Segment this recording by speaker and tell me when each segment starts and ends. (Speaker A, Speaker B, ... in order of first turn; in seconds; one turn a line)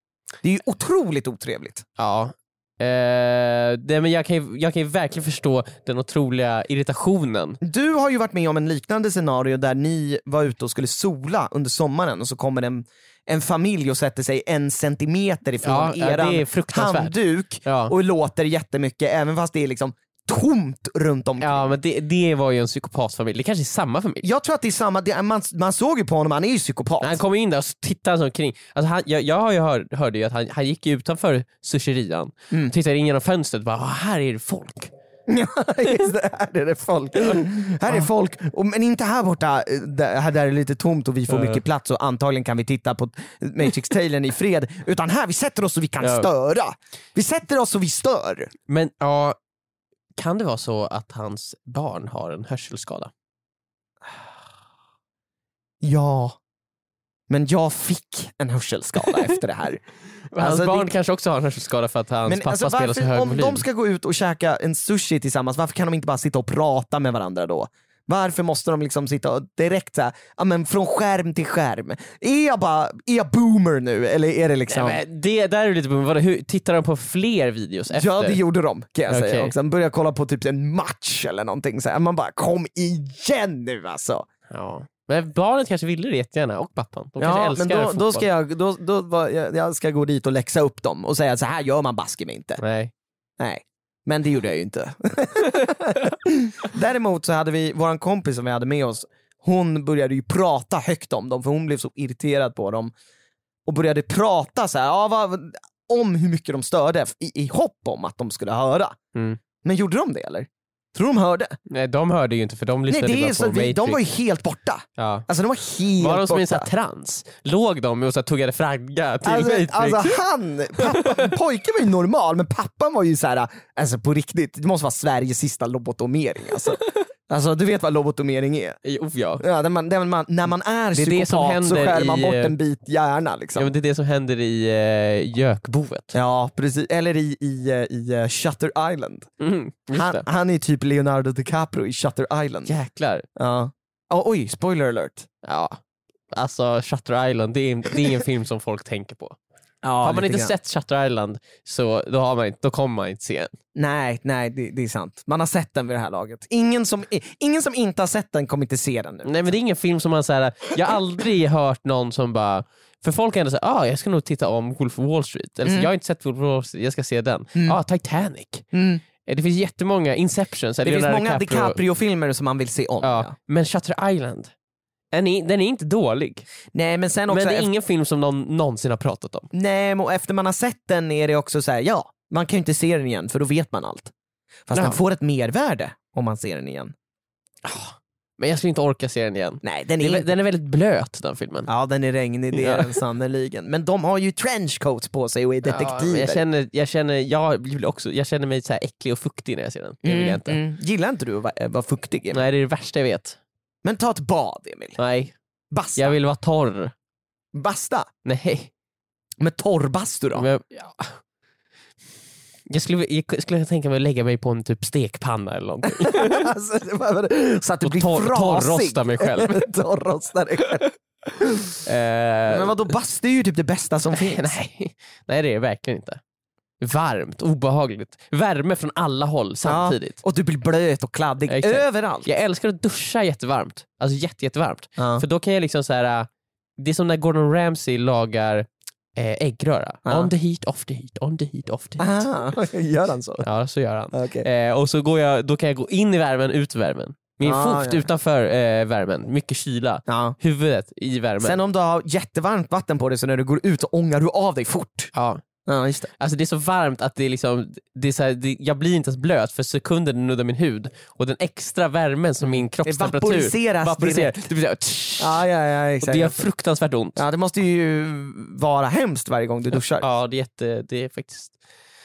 Speaker A: 0.4-1.8
Speaker B: 2.0-7.6
Speaker A: 7.6-21.7
Speaker B: 15.6-17.9
Speaker B: 21.4-24.3
Speaker A: 24.2-27.2
Speaker B: 27.0-34.9
Speaker A: 35.3-48.5
Speaker B: 41.3-41.6
Speaker B: 46.0-46.3
Speaker B: 48.7-49.4
Speaker B: 50.2-53.1
Speaker A: 55.8-56.4
Speaker A: 57.3-59.8
Speaker B: 60.3-63.6
Speaker A: 60.4-60.9
Speaker A: 62.3-75.0
Speaker B: 74.7-78.4
Speaker A: 77.9-84.3
Speaker B: 79.1-79.5
Speaker B: 84.5-88.2
Speaker A: 87.2-92.6
Speaker B: 92.6-92.9
Speaker A: 93.4-102.9
Speaker A: 103.7-109.0
Speaker B: 109.1-109.4
Speaker A: 109.6-111.6
Speaker B: 111.7-114.0
Speaker A: 112.9-116.7
Speaker B: 115.0-115.2
Speaker B: 116.0-120.2
Speaker A: 119.2-128.8
Speaker B: 120.8-121.3
Speaker B: 128.8-129.4
Speaker A: 129.4-133.7
Speaker B: 130.9-132.5
Speaker B: 133.6-136.1
Speaker A: 136.1-139.3
Speaker B: 139.4-140.2
Speaker A: 139.9-142.7
Speaker B: 142.7-143.2
Speaker A: 143.3-145.3
Speaker B: 145.4-145.8
Speaker B: 146.3-149.4
Speaker A: 149.8-150.5
Speaker B: 150.0-153.5
Speaker A: 153.7-159.4
Speaker B: 159.2-168.7
Speaker A: 165.6-165.9
Speaker A: 168.7-169.0
Speaker B: 169.2-171.8
Speaker A: 170.8-173.3
Speaker B: 173.0-174.5
Speaker B: 175.1-176.5
Speaker A: 176.7-177.7
Speaker B: 177.3-179.5
Speaker A: 179.5-184.1
Speaker A: 184.7-186.9
Speaker B: 184.7-185.0
Speaker B: 187.6-191.7
Speaker A: 189.6-190.3
Speaker A: 191.7-196.4
Speaker B: 192.5-192.9
Speaker B: 195.6-200.6
Speaker A: 200.0-202.4
Speaker B: 202.3-203.4
Speaker A: 203.8-205.0
Speaker B: 205.0-205.3
Speaker A: 205.7-206.2
Speaker B: 205.9-206.9
Speaker A: 207.5-208.1
Speaker B: 208.2-208.7
Speaker A: 209.4-210.5
Speaker B: 210.3-211.2
Speaker B: 212.7-216.5
Speaker A: 216.0-221.8
Speaker B: 217.8-219.6
Speaker B: 221.8-222.9
Speaker A: 222.5-224.5
Speaker B: 224.1-226.2
Speaker B: 226.8-230.2
Speaker A: 229.6-232.3
Speaker B: 231.5-242.2
Speaker A: 235.0-235.2
Speaker A: 240.1-240.3
Speaker A: 242.0-243.4
Speaker B: 243.4-251.6
Speaker A: 244.1-244.4
Speaker A: 247.4-248.1
Speaker A: 250.1-250.3
Speaker A: 251.4-255.1
Speaker B: 255.1-255.4
Speaker A: 255.7-256.1
Speaker B: 256.2-265.4
Speaker A: 262.4-264.4
Speaker A: 265.2-266.4
Speaker B: 266.0-267.2
Speaker A: 267.1-270.1
Speaker B: 270.0-271.6